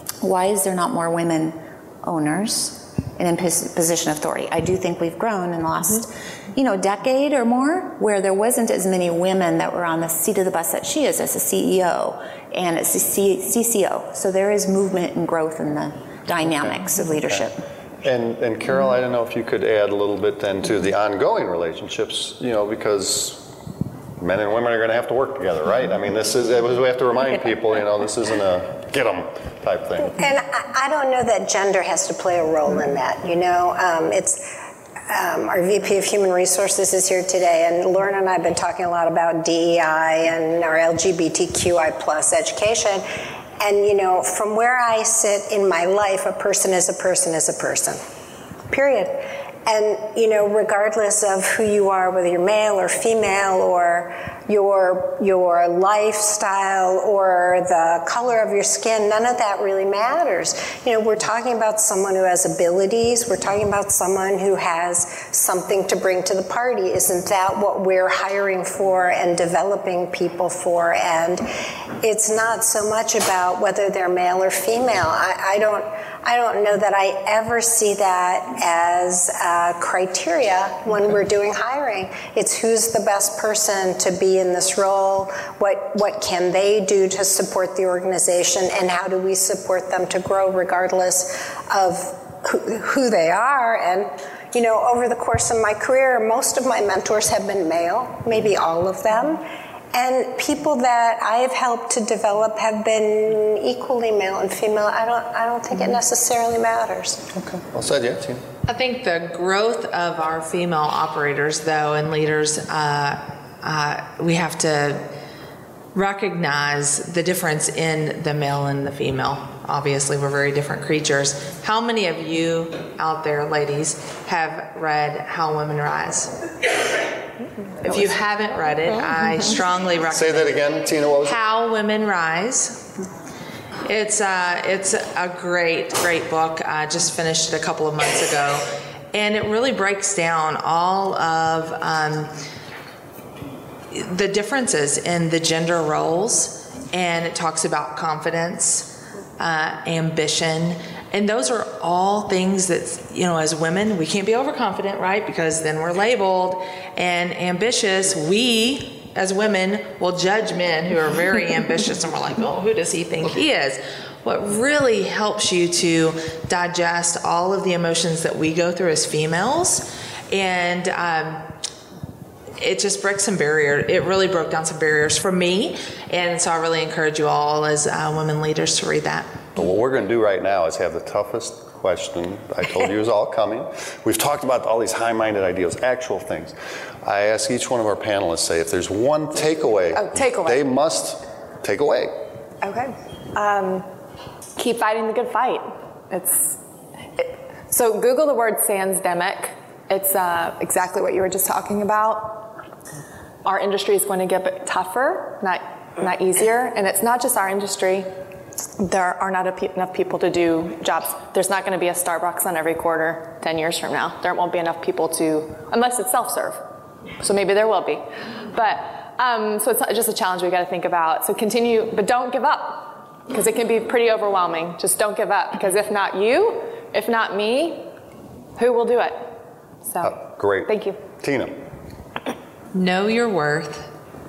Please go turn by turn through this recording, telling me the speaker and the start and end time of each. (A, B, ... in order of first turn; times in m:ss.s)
0:00.2-0:17.6 A
0:18.0-0:23.5 B
0:24.2-0:30.2 B
0:30.2-0:34.4 C
0:35.1-0:43.0 C
0:43.6-0:48.0 C
0:48.7-1:11.4 C
1:12.0-1:47.2 C
1:47.3-1:48.4 B
1:48.7-1:55.1 D
1:55.9-2:06.4 D
2:07.8-2:10.7 D
2:10.1-2:11.4 B
2:11.2-2:12.9 D
2:13.8-2:22.3 D
2:23.9-2:51.5 D
2:52.6-2:59.3 D
2:59.6-3:12.2 B
3:09.9-3:10.6 E
3:12.6-3:13.9 E
3:14.6-3:16.6 E
3:17.2-3:22.6 E
3:23.4-3:28.1 E
3:28.8-3:36.6 E
3:37.2-3:47.9 E
3:48.6-3:51.0 E
3:50.0-3:51.6 B
3:52.7-3:53.9 D